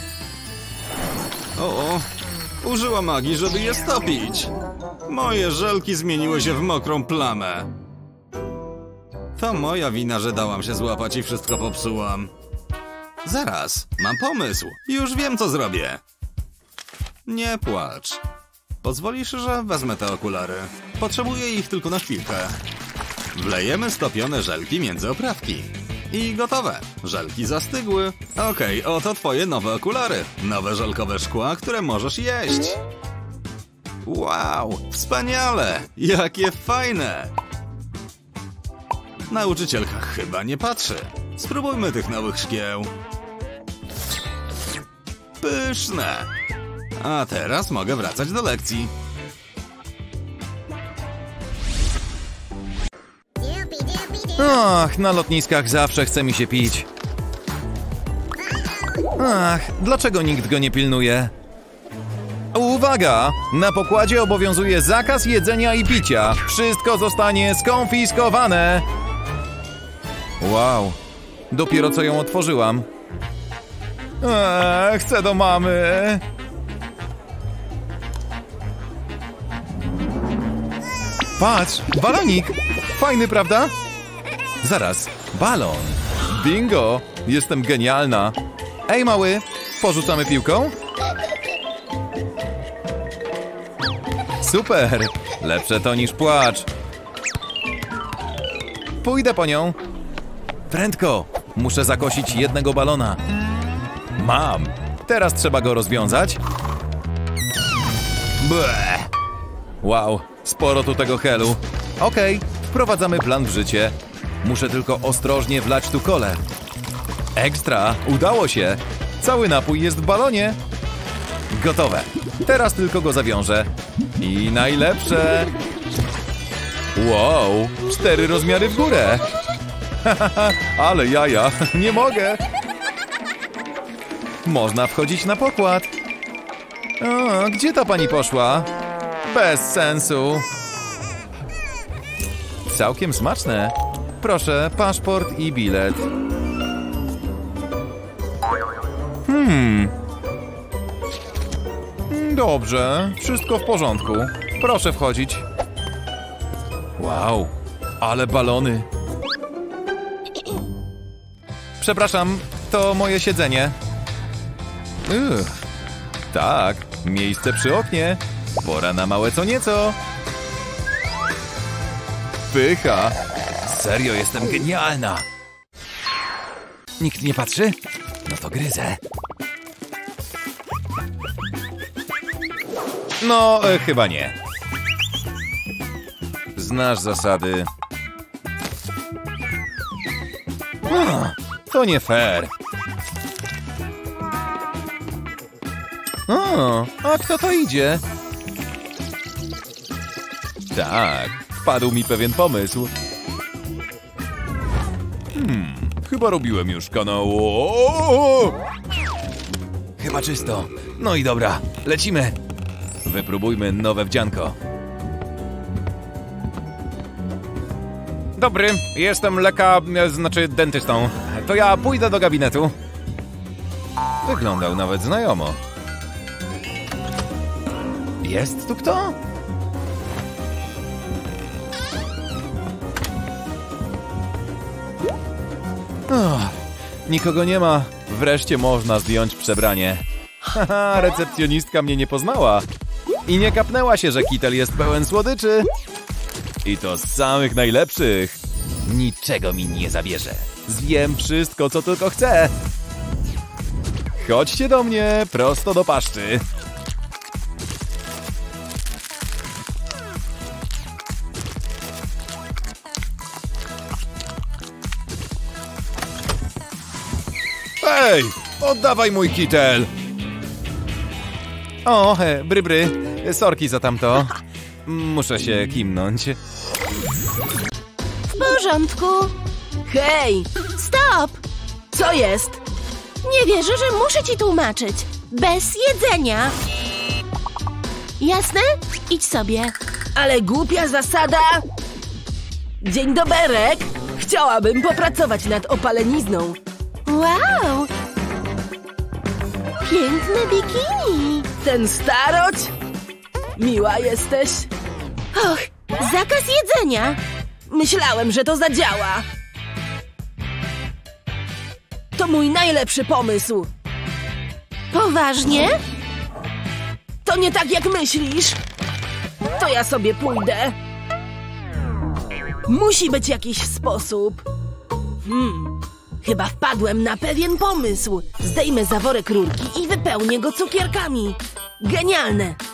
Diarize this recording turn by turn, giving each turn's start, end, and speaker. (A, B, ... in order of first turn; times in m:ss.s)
0:01.6-0:02.1 A
0:02.6-0:04.5 A
0:05.1-0:07.7 A
0:09.4-0:12.3 A
0:13.2-0:16.0 A
0:17.3-0:18.2 A
0:18.8-0:22.6 A
0:23.3-0:32.8 A
0:34.0-0:37.3 A
0:39.3-0:42.9 A
0:45.4-0:46.3 A
0:47.0-0:48.9 A
0:54.4-0:56.9 B
0:59.2-1:01.3 B
1:02.5-1:08.8 B
1:10.4-1:11.0 B
1:11.5-1:12.8 B
1:14.2-1:16.2 B
1:21.4-1:23.7 B
1:24.6-1:28.4 B
1:28.9-1:30.7 B
1:34.4-1:36.7 B
1:39.0-1:39.8 B
1:40.7-1:43.2 B
1:44.2-1:46.4 B
1:48.4-1:49.1 B
1:49.8-1:56.4 B
1:57.4-2:00.6 B
2:01.5-2:05.5 B
2:07.0-2:09.2 B
2:10.0-2:12.4 B
2:14.4-2:15.9 B
2:17.0-2:18.7 B
2:19.3-2:20.4 B
2:22.7-2:26.1 B
2:29.3-2:29.9 B
2:32.1-2:35.4 B
2:37.0-2:38.9 B
2:41.8-2:43.8 B
2:45.1-2:45.6 B
2:46.3-2:50.0 B
2:52.5-2:55.2 B
2:57.0-2:57.8 B
2:58.3-2:59.0 B
3:03.2-3:04.4 B
3:06.6-3:07.7 B
3:10.9-3:12.5 B
3:16.3-3:18.0 B
3:20.7-3:22.9 B
3:25.4-3:28.6 B
3:30.0-3:32.4 B
3:33.0-3:34.6 B
3:38.4-3:42.7 B
3:44.2-3:45.6 B
3:48.2-3:49.2 B
3:56.1-3:56.6 B
3:57.1-4:02.6 B
4:03.3-4:05.7 B
4:06.6-4:12.5 B
4:14.2-4:16.4 B
4:27.8-4:29.9 B
4:31.8-4:34.4 B
4:34.9-4:36.4 B
4:38.3-4:39.3 C
4:39.8-4:40.5 D
4:40.8-4:41.4 C
4:41.9-4:42.6 D
4:43.2-4:46.5 C
4:48.2-4:49.7 C
4:50.2-4:51.6 D
4:52.8-4:56.6 D
4:57.1-4:57.9 C
4:59.8-5:01.5 C
5:01.6-5:02.7 D
5:03.6-5:04.7 D
5:05.3-5:07.2 C
5:07.7-5:09.2 D
5:12.1-5:13.7 D
5:14.9-5:15.8 C
5:17.2-5:18.6 D
5:19.6-5:20.8 D
5:22.7-5:24.4 D
5:25.2-5:32.6 D